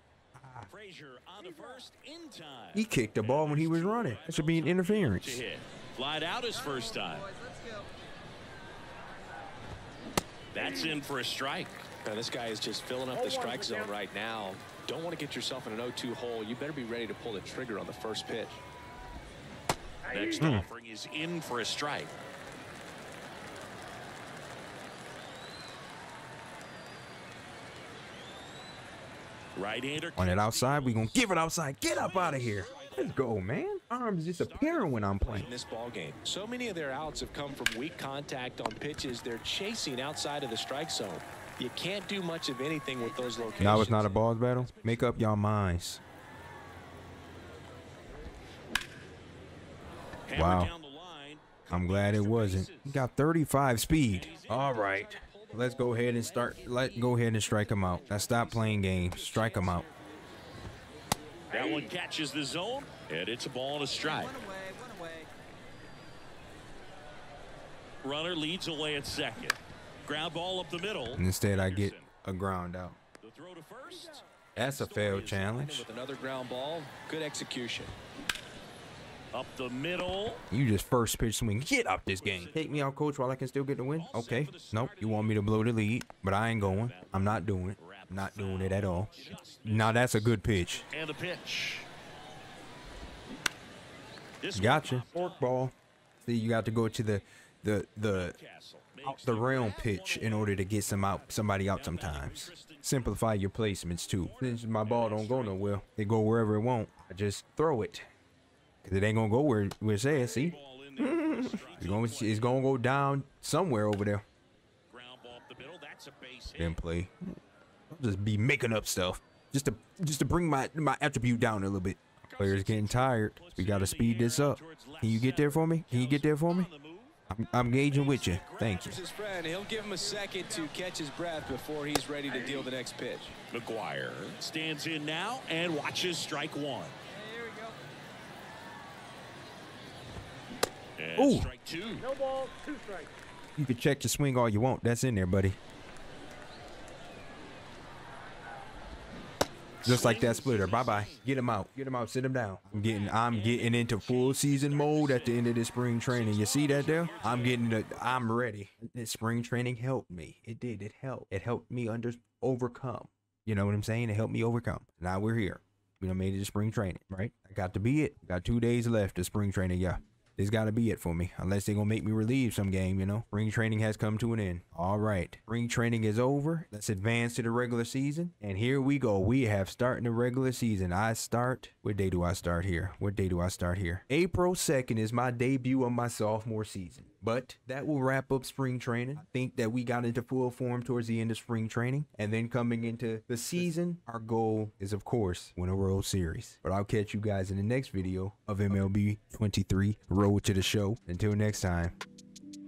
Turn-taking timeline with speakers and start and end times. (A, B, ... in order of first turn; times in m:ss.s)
0:00.4-0:00.7 A
0:00.7-0:07.4 B
0:02.7-0:05.4 A
0:10.5-0:11.9 B
0:12.0-0:18.6 C
0:20.1-0:22.2 B
0:20.4-0:20.7 A
0:29.6-0:31.2 B
0:30.2-0:35.5 A
0:31.9-0:33.3 B
0:34.3-0:35.7 B
0:35.3-0:44.1 C
0:43.4-0:45.1 B
0:43.6-0:46.0 A
0:50.3-0:53.1 B
0:50.3-0:50.7 A
0:51.7-0:59.8 A
0:54.0-0:55.0 B
0:54.3-1:00.1 C
1:01.5-1:05.0 B
1:08.0-1:12.1 B
1:11.1-1:13.0 A
1:13.2-1:16.5 B
1:14.6-1:15.9 A
1:15.4-1:17.9 C
1:19.3-1:20.4 B
1:20.5-1:30.9 A
1:22.1-1:22.9 B
1:23.9-1:25.5 B
1:26.6-1:31.9 B
1:34.4-1:35.5 B
1:34.6-1:38.4 A
1:38.1-1:43.1 B
1:39.0-1:48.1 A
1:44.2-1:45.7 B
1:48.8-1:54.2 A
1:50.1-1:52.6 B
1:54.9-1:56.8 B
1:56.6-1:57.4 A
1:57.9-2:06.7 A
2:02.3-2:07.2 B
2:07.3-2:09.0 A
2:07.7-2:09.3 B
2:08.7-2:13.4 C
2:13.5-2:17.0 B
2:21.0-2:22.3 B
2:21.2-2:21.5 A
2:23.6-2:25.6 A
2:29.8-2:31.3 B
2:29.8-3:22.0 A
2:32.7-2:38.2 B